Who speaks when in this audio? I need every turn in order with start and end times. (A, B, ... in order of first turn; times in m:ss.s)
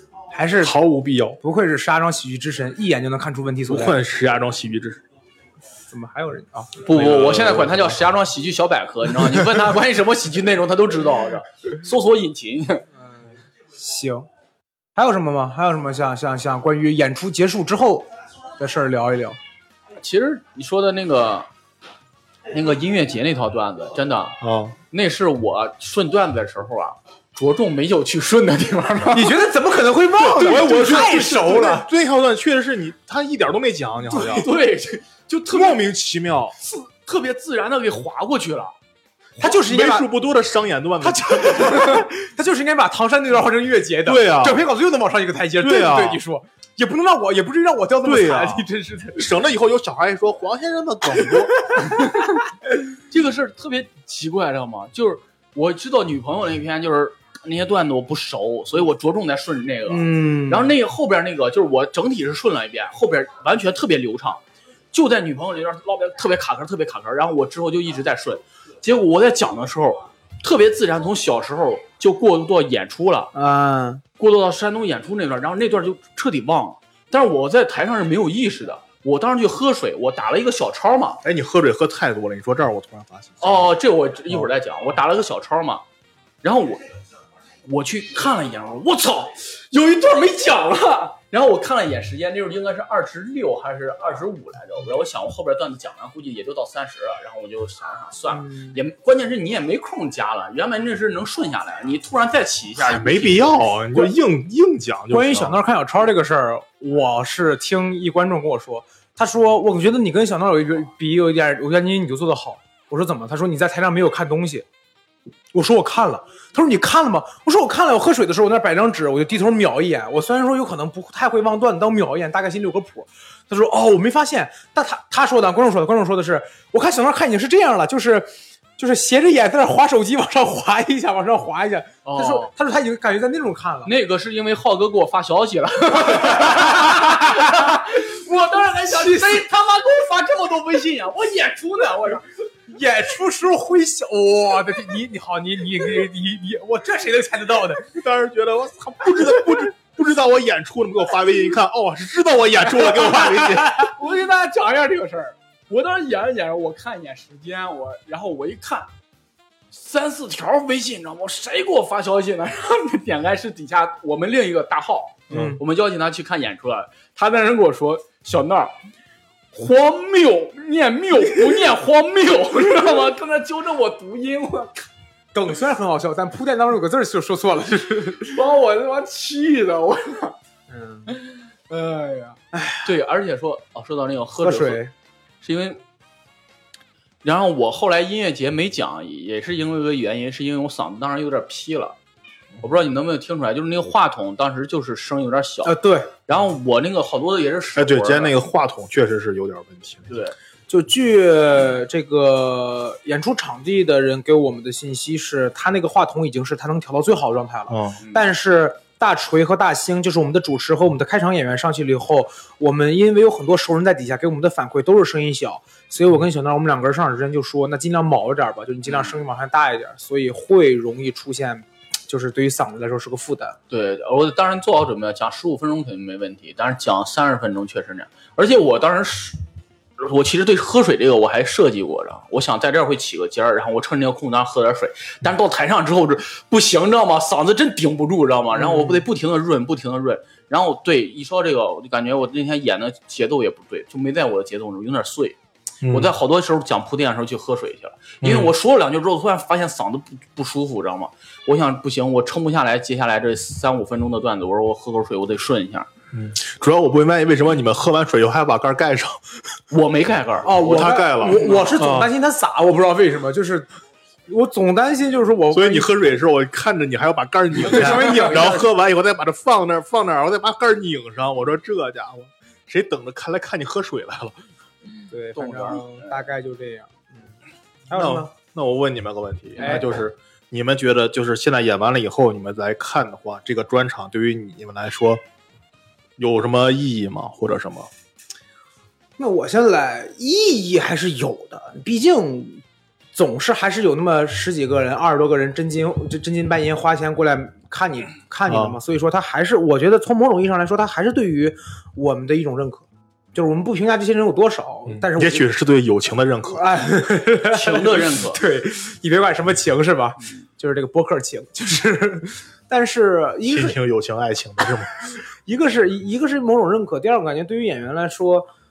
0:00.3-0:00.8 A
0:00.6-0:01.4 B
0:01.4-0:04.0 A
0:03.7-0:05.0 B
0:05.9-0:06.9 A
0:06.8-0:12.9 C
0:06.9-0:08.0 B
0:13.8-0:14.3 A
0:15.0-0:19.4 A
0:20.0-0:21.5 C
0:22.5-0:24.4 C
0:24.4-0:24.8 B
0:24.9-0:29.4 C
0:29.1-0:31.9 A
0:30.2-0:34.5 B
0:30.5-0:31.1 C
0:34.1-0:34.4 A
0:34.2-0:35.8 C
0:35.5-0:36.6 B
0:36.6-0:38.8 C
0:39.4-0:40.1 A
0:39.4-0:42.1 B
0:41.0-0:49.3 A
0:44.0-0:44.7 B
0:45.6-0:46.2 B
0:48.0-0:51.7 B
0:51.2-0:51.8 A
0:51.8-1:13.3 C
0:59.9-1:00.8 A
1:13.3-1:14.0 A
1:14.2-1:21.2 C
1:21.2-1:23.7 B
1:23.4-1:25.8 C
1:26.4-1:26.8 C
1:27.6-1:43.6 C
1:38.3-1:38.8 A
1:42.8-1:45.6 B
1:45.1-1:54.7 A
1:55.5-2:13.9 A
2:12.0-2:12.5 C
2:13.8-2:22.3 C
2:16.0-2:17.8 A
2:18.9-2:19.4 A
2:22.7-2:28.0 A
2:27.9-2:33.9 B
2:29.2-2:29.6 A
2:32.7-2:33.7 A
2:33.6-2:38.9 C
2:39.7-2:48.7 C
2:45.3-2:45.6 B
2:45.3-2:45.6 A
2:49.5-2:54.7 C
2:55.3-2:58.4 A
2:58.2-3:00.4 C
3:00.7-3:01.1 A
3:01.1-3:04.8 C
3:02.5-3:02.9 A
3:04.4-3:04.9 A
3:05.4-3:05.8 C
3:07.2-3:12.0 C
3:12.6-3:15.8 C
3:15.6-3:16.1 A
3:16.3-3:18.4 C
3:17.8-3:20.2 B
3:20.1-3:20.4 C
3:20.7-3:43.6 A
3:27.7-3:28.0 B
3:28.0-3:28.3 C
3:38.9-3:39.1 C
3:43.7-3:49.4 C
3:50.0-4:15.9 C
3:58.6-3:59.0 A
4:05.8-4:06.1 B
4:08.2-4:08.5 B
4:16.1-4:19.2 B
4:19.7-4:21.8 C
4:20.4-4:23.7 A
4:20.7-4:22.1 B
4:24.3-4:26.0 A
4:25.5-4:34.4 B
4:27.6-4:28.7 A
4:28.2-4:28.6 C
4:35.1-4:37.3 A
4:35.3-4:36.2 C
4:37.9-4:38.3 A
4:37.9-4:45.2 B
4:39.6-4:40.0 A
4:46.2-4:47.9 B
4:49.2-4:52.6 A
4:53.2-5:05.5 A
4:58.5-4:58.8 B
5:04.9-5:06.7 B
5:06.5-5:13.8 A
5:07.4-5:08.4 C
5:13.5-5:15.0 B
5:14.6-5:18.5 A